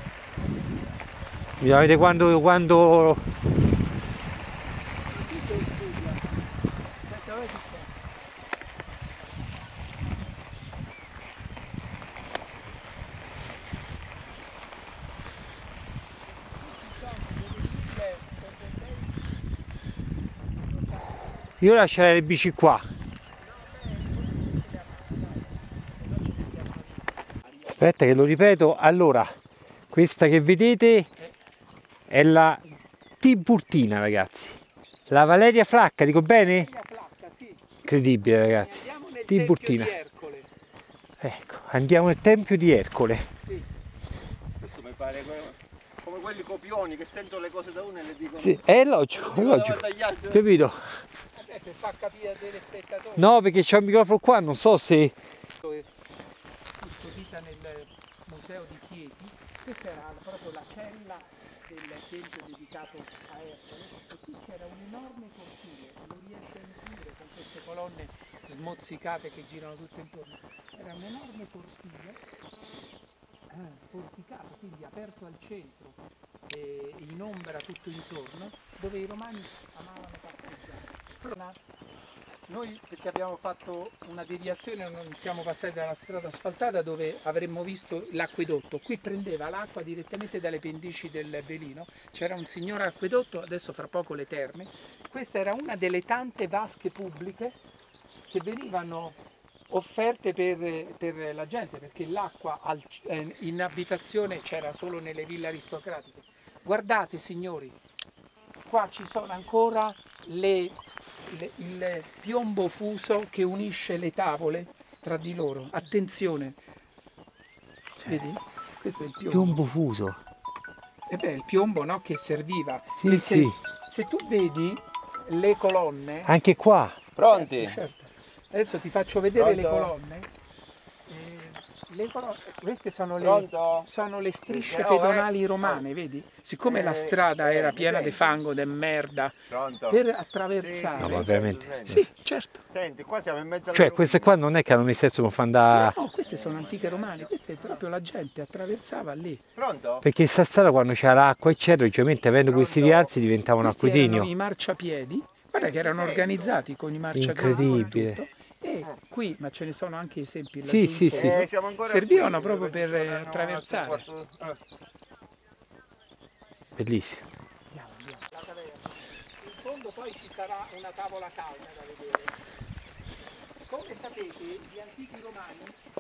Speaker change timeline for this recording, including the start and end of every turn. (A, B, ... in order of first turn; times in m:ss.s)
0:00.3-0:01.0 A
0:01.6-0:03.2 B
0:05.1-0:06.4 A
0:07.0-0:07.9 A
0:16.6-0:19.2 A
0:20.6-0:21.5 A
0:21.6-0:22.9 B
0:23.4-0:27.8 A
0:27.7-0:29.4 B
0:29.9-0:31.1 B
0:32.1-0:32.6 B
0:33.2-0:36.7 B
0:36.4-0:40.5 A
0:37.8-0:39.9 B
0:41.2-0:43.3 B
0:43.4-0:43.7 A
0:44.6-0:48.6 C
0:48.4-0:51.0 B
0:49.1-0:50.4 C
0:51.3-0:53.3 A
0:53.2-0:55.1 B
0:55.6-0:55.9 A
0:56.8-1:12.2 A
1:13.5-1:21.6 A
1:22.5-1:37.6 A
1:38.3-1:39.2 A
1:39.7-1:47.8 A
1:48.7-1:56.6 A
1:58.0-1:59.6 A
1:59.3-2:00.2 B
2:01.1-2:06.3 A
2:03.0-2:03.6 B
2:06.2-2:07.0 B
2:07.2-2:07.8 C
2:07.3-2:10.3 A
2:09.3-2:09.9 C
2:11.1-2:21.3 A
2:13.2-2:13.9 C
2:14.5-2:15.8 C
2:16.6-2:18.4 C
2:19.5-2:20.0 C
2:20.6-2:22.0 C
2:21.0-2:22.1 B
2:21.9-2:22.6 A
2:22.7-2:24.3 C
2:23.7-2:26.0 B
2:25.7-2:29.4 A
2:26.2-2:27.8 C
2:29.5-2:30.0 C
2:30.0-2:34.3 B
2:32.4-2:33.1 C
2:33.6-2:44.0 A
2:35.6-2:36.6 C
2:37.1-2:38.2 B
2:40.6-2:41.4 B
2:41.1-2:44.6 C
2:46.8-2:47.2 B
2:47.7-2:52.4 A
2:53.7-2:55.8 A